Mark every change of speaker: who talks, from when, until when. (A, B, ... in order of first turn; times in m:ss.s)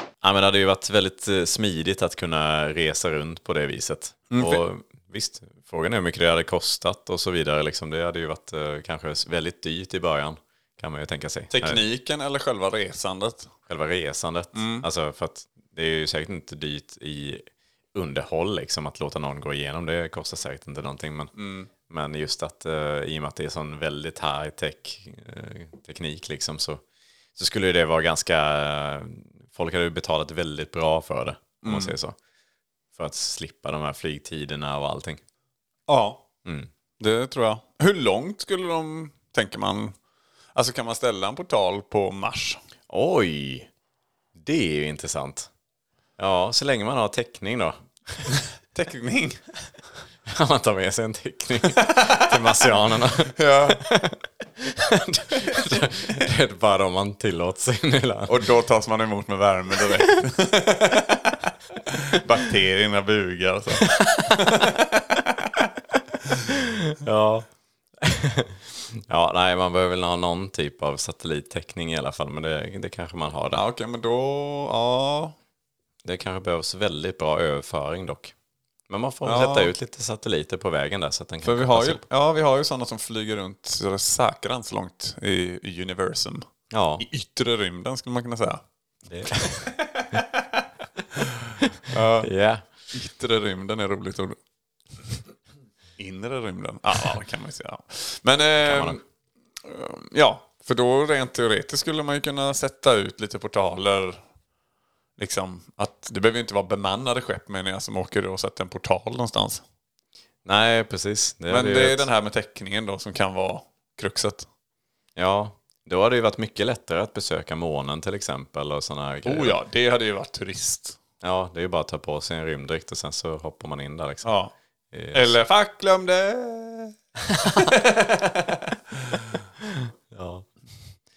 0:00.2-0:11.8 A
0:04.3-0:04.6 B
0:11.5-0:13.5 B
0:13.7-0:17.4 A
0:14.5-0:14.9 B
0:17.9-0:21.3 A
0:21.3-0:21.7 B
0:21.9-0:26.8 A
0:27.4-0:32.2 A
0:31.6-0:31.9 B
0:32.9-0:35.2 A
0:35.9-0:36.2 B
0:37.0-0:39.9 B
0:40.5-0:42.6 B
0:42.9-0:43.7 A
0:44.4-0:45.5 A
0:46.2-0:48.3 A
0:48.7-0:49.5 B
0:50.3-0:58.5 A
0:51.8-0:52.7 B
0:53.2-0:53.8 B
0:58.3-1:05.5 B
1:03.9-1:04.6 A
1:06.4-1:07.5 A
1:08.0-1:13.6 A
1:13.5-1:15.4 B
1:16.0-1:18.3 A
1:18.9-1:22.0 A
1:19.2-1:19.7 B
1:21.4-1:26.4 B
1:26.7-1:27.0 A
1:27.0-1:28.6 B
1:29.1-1:29.7 A
1:29.3-1:30.6 B
1:31.9-1:32.3 B
1:32.2-1:32.6 A
1:32.9-1:34.4 B
1:36.0-1:39.0 B
1:38.6-1:39.0 A
1:39.6-1:44.2 B
1:45.2-1:49.6 B
1:50.4-1:52.1 A
1:51.5-1:54.5 B
1:55.2-1:59.6 A
1:59.2-2:01.0 B
2:01.2-2:04.3 A
2:04.2-2:04.5 B
2:04.9-2:05.4 A
2:05.1-2:06.9 B
2:07.3-2:07.7 A
2:07.5-2:09.3 B
2:09.7-2:10.5 A